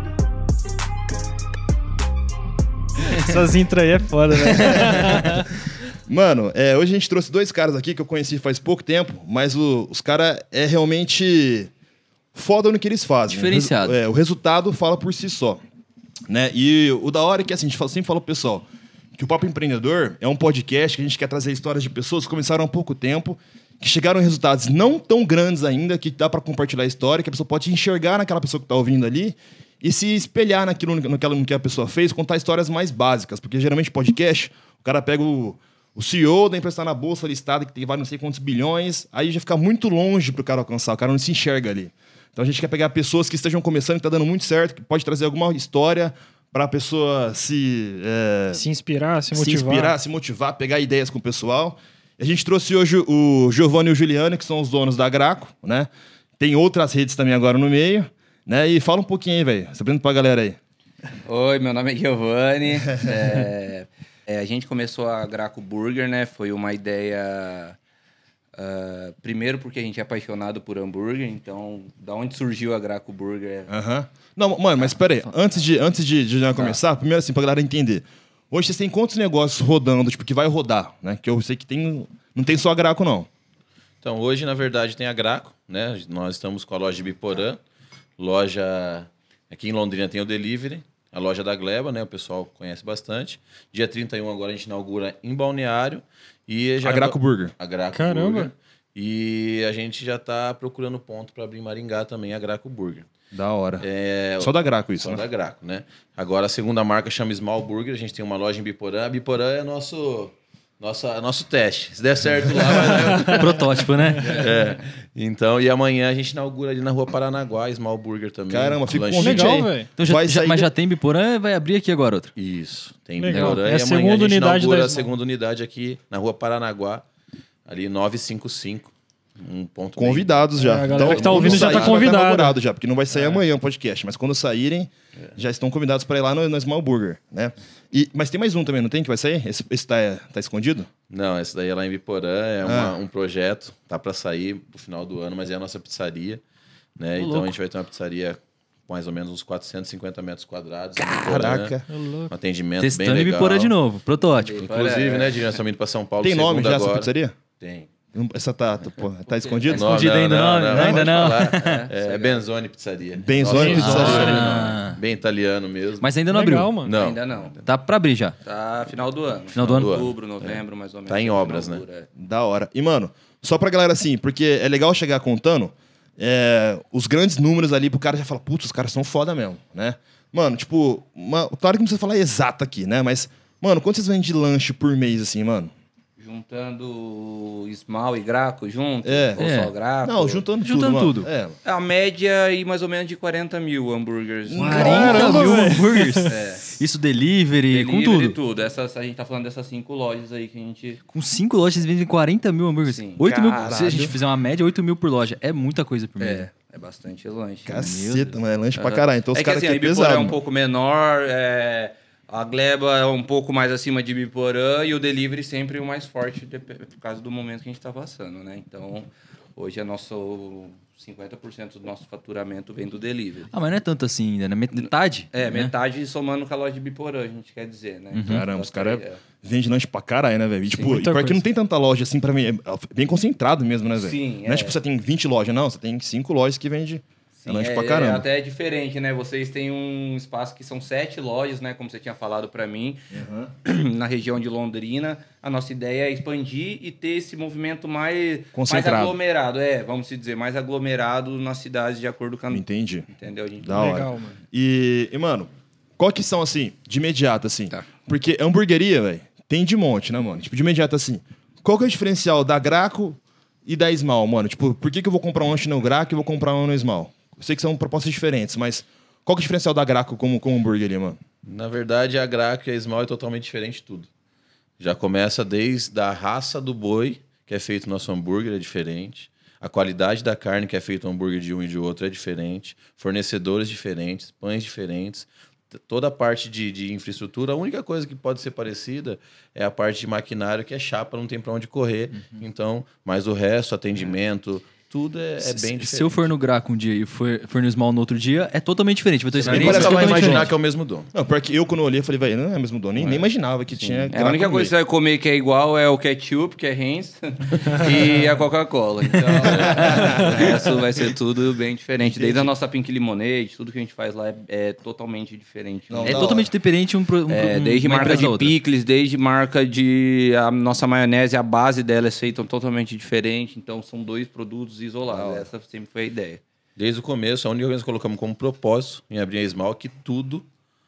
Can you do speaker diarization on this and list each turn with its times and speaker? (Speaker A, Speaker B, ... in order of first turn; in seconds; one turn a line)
Speaker A: 3.0-5.5
Speaker B: 4.5-5.3
Speaker C: 4.8-5.1
Speaker C: 6.1-11.7
Speaker C: 12.3-15.6
Speaker B: 13.3-13.9
Speaker C: 16.3-48.6
Speaker A: 48.5-49.9
Speaker C: 49.3-60.6
Speaker D: 61.2-67.8
Speaker D: 68.5-73.7
Speaker C: 73.7-83.3
Speaker E: 84.0-87.6
Speaker E: 88.2-103.1
Speaker C: 96.8-97.5
Speaker A: 97.9-98.5
Speaker C: 103.3-103.8
Speaker E: 103.8-113.7
Speaker C: 104.4-105.2
Speaker A: 112.9-113.4
Speaker B: 113.2-114.4
Speaker E: 114.2-119.7
Speaker C: 118.5-120.7
Speaker A: 119.2-119.9
Speaker B: 120.0-122.3
Speaker E: 122.3-127.0
Speaker A: 123.2-125.1
Speaker B: 123.3-123.6
Speaker E: 127.7-132.1
Speaker C: 129.9-140.9
Speaker A: 130.6-132.6
Speaker E: 141.1-146.4
Speaker C: 142.6-142.9
Speaker E: 147.0-151.8
Speaker B: 147.2-147.5
Speaker C: 151.0-151.8
Speaker A: 151.9-152.3
Speaker E: 152.3-153.7
Speaker B: 152.8-154.6
Speaker D: 154.3-155.6
Speaker E: 154.6-157.9
Speaker C: 156.2-157.3
Speaker C: 158.1-160.1
Speaker D: 159.3-159.7
Speaker E: 159.6-166.2
Speaker B: 159.7-161.8
Speaker C: 160.7-161.1
Speaker D: 161.4-162.4
Speaker C: 163.2-164.6
Speaker A: 163.4-164.5
Speaker B: 163.7-165.0
Speaker B: 166.0-166.8
Speaker A: 166.3-166.9
Speaker E: 166.8-167.6
Speaker D: 166.9-167.5
Speaker B: 167.6-168.3
Speaker D: 168.4-172.1
Speaker B: 169.5-169.9
Speaker E: 169.6-171.8
Speaker C: 172.2-185.7
Speaker D: 186.2-190.4
Speaker C: 189.0-189.4
Speaker B: 189.4-189.7
Speaker C: 190.0-191.6
Speaker B: 190.6-191.3
Speaker D: 191.6-195.4
Speaker C: 194.5-195.7
Speaker B: 194.6-198.4
Speaker A: 194.6-196.3
Speaker D: 196.3-196.6
Speaker D: 197.7-201.0
Speaker B: 201.1-206.4
Speaker D: 202.8-203.9
Speaker C: 203.6-204.1
Speaker D: 206.2-207.9
Speaker C: 207.7-210.4
Speaker B: 207.8-208.3
Speaker D: 208.8-223.5
Speaker B: 223.5-225.7
Speaker D: 224.8-229.2
Speaker B: 228.1-228.4
Speaker C: 228.3-238.2
Speaker D: 230.7-231.0
Speaker A: 230.8-231.4
Speaker D: 233.9-234.8
Speaker D: 237.4-243.0
Speaker C: 243.1-243.5
Speaker D: 243.6-254.0
Speaker C: 248.5-249.2
Speaker C: 252.5-253.1
Speaker C: 253.6-271.2
Speaker A: 253.7-254.3
Speaker E: 271.4-274.1
Speaker E: 274.8-296.3
Speaker B: 295.4-300.5
Speaker E: 299.3-301.1
Speaker C: 299.5-300.5
Speaker C: 301.1-304.7
Speaker E: 302.9-303.2
Speaker D: 304.1-316.4
Speaker E: 307.7-308.3
Speaker B: 309.6-310.0
Speaker C: 309.6-310.4
Speaker C: 312.0-312.5
Speaker C: 315.9-316.5
Speaker B: 316.0-318.5
Speaker D: 317.3-326.4
Speaker C: 325.1-325.5
Speaker E: 326.8-330.4